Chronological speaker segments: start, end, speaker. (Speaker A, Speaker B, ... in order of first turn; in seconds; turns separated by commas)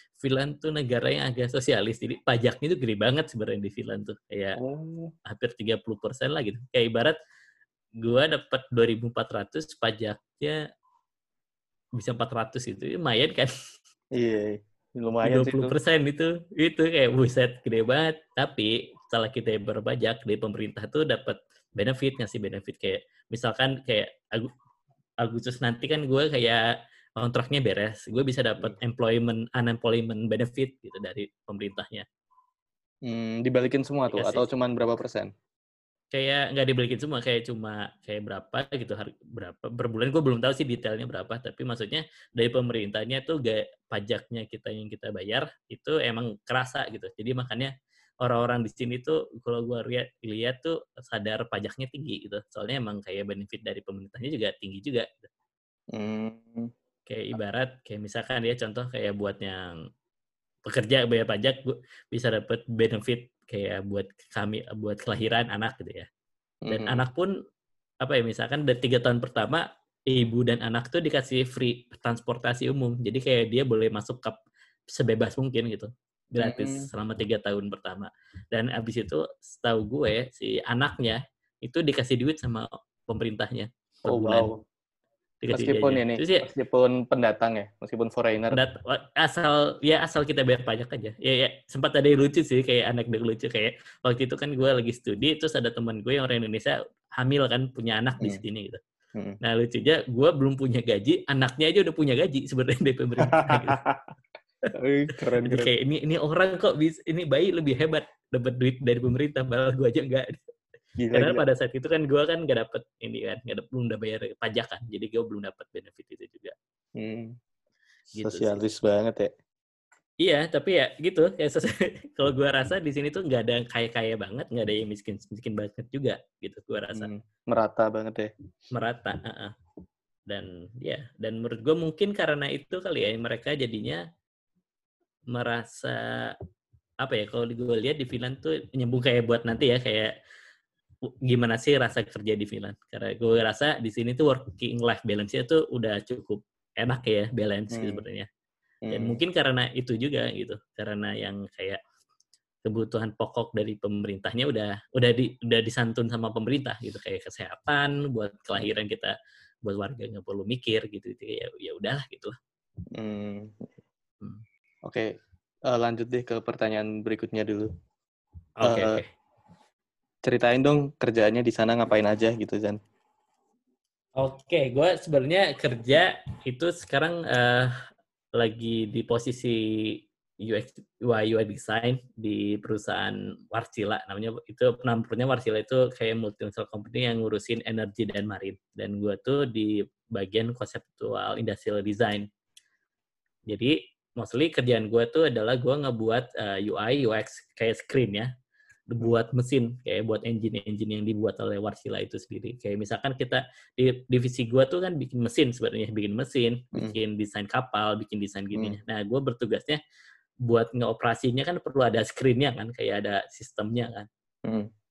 Speaker A: 0.2-4.6, Speaker B: 4.6-5.1, Speaker A: 5.2-7.2, Speaker A: 8.0-10.6, Speaker A: 12.0-13.5, Speaker B: 14.2-15.8, Speaker A: 15.2-24.5, Speaker A: 25.2-26.7, Speaker A: 27.2-32.1, Speaker B: 33.1-35.3, Speaker A: 34.1-34.5, Speaker A: 36.1-55.3, Speaker B: 55.9-56.7, Speaker A: 57.1-59.8, Speaker A: 60.7-66.1, Speaker B: 66.7-67.0, Speaker A: 66.7-67.3, Speaker A: 68.0-74.4, Speaker A: 74.9-84.5, Speaker B: 76.4-76.9, Speaker B: 84.1-84.6, Speaker A: 85.4-86.5, Speaker B: 85.5-88.6, Speaker A: 88.5-98.8, Speaker A: 99.4-103.8, Speaker B: 103.2-104.1, Speaker B: 104.8-105.7, Speaker A: 105.4-110.5, Speaker B: 111.0-111.4, Speaker A: 111.1-116.5, Speaker B: 117.0-117.3, Speaker A: 118.1-118.6, Speaker B: 118.2-119.3, Speaker A: 120.2-127.1, Speaker B: 126.9-128.3, Speaker A: 128.7-129.5, Speaker A: 130.3-134.0, Speaker A: 135.3-136.3, Speaker A: 137.0-140.1, Speaker A: 141.2-148.3, Speaker B: 147.7-148.0, Speaker B: 148.9-149.2, Speaker A: 148.9-151.8, Speaker A: 152.7-159.1, Speaker A: 159.7-162.4, Speaker B: 162.9-163.8, Speaker B: 164.8-165.1, Speaker B: 165.7-167.7, Speaker A: 168.6-169.1, Speaker B: 168.7-169.0, Speaker B: 170.2-172.8, Speaker A: 174.2-177.7, Speaker A: 178.4-192.3, Speaker A: 193.5-198.3, Speaker A: 198.9-209.8, Speaker A: 210.5-214.1